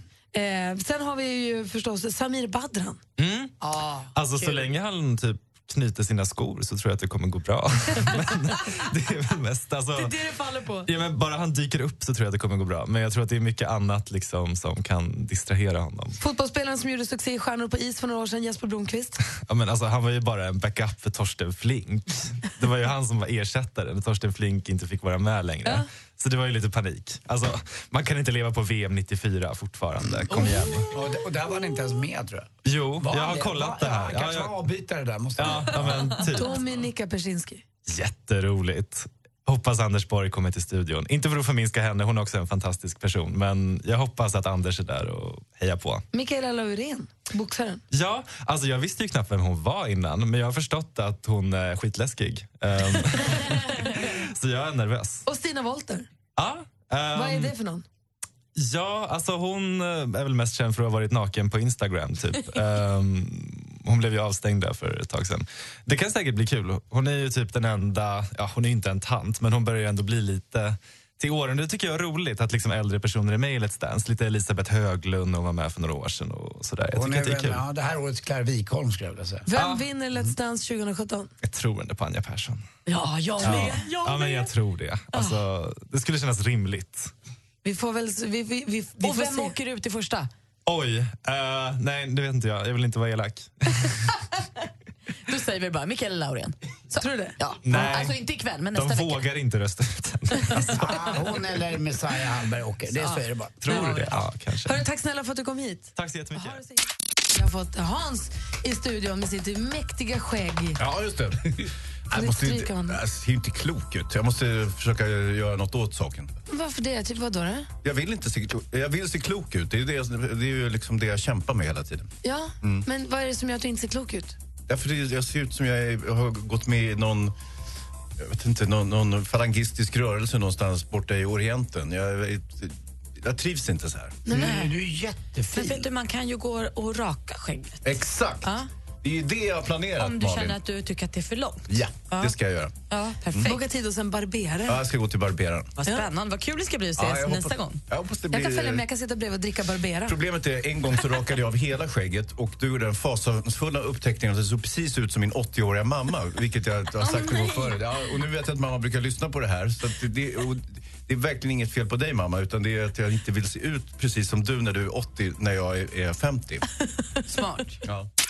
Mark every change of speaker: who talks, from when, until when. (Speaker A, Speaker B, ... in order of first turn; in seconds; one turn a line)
Speaker A: 0.3-3.0
Speaker B: 3.2-3.5
Speaker B: 4.1-10.1
Speaker C: 10.1-10.9
Speaker B: 10.8-16.2
Speaker A: 16.2-19.2
Speaker B: 19.5-30.9
Speaker D: 30.9-36.1
Speaker B: 32.6-34.5
Speaker B: 35.4-36.6
Speaker A: 36.2-37.6
Speaker B: 37.9-46.0
Speaker A: 46.1-47.8
Speaker B: 47.9-55.2
Speaker A: 55.2-56.1
Speaker B: 56.4-57.5
Speaker A: 57.1-57.8
Speaker B: 58.5-77.6
Speaker D: 76.9-79.5
Speaker A: 79.5-81.3
Speaker B: 79.5-79.8
Speaker B: 81.4-82.6
Speaker C: 82.9-84.5
Speaker B: 83.4-87.1
Speaker A: 87.6-89.5
Speaker C: 89.0-90.3
Speaker B: 90.7-93.9
Speaker C: 95.2-99.2
Speaker A: 96.9-97.4
Speaker B: 97.6-98.2
Speaker B: 98.7-100.8
Speaker D: 100.5-103.6
Speaker C: 102.9-104.0
Speaker B: 103.6-104.8
Speaker A: 103.7-104.0
Speaker A: 104.7-110.8
Speaker B: 106.0-106.6
Speaker E: 110.8-116.3
Speaker A: 112.1-113.0
Speaker A: 116.5-117.7
Speaker E: 117.8-122.1
Speaker A: 122.2-124.3
Speaker E: 124.7-127.3
Speaker E: 128.2-134.2
Speaker A: 134.2-134.7
Speaker D: 134.3-135.9
Speaker C: 134.3-134.7
Speaker C: 135.5-137.9
Speaker E: 137.8-138.5
Speaker E: 139.0-140.6
Speaker C: 140.0-142.3
Speaker E: 141.7-142.7
Speaker C: 142.9-143.6
Speaker A: 143.4-144.8
Speaker E: 144.7-145.8
Speaker C: 145.8-147.8
Speaker E: 147.0-148.8
Speaker A: 148.3-150.2
Speaker E: 150.1-166.6
Speaker C: 157.0-157.8
Speaker C: 167.3-167.8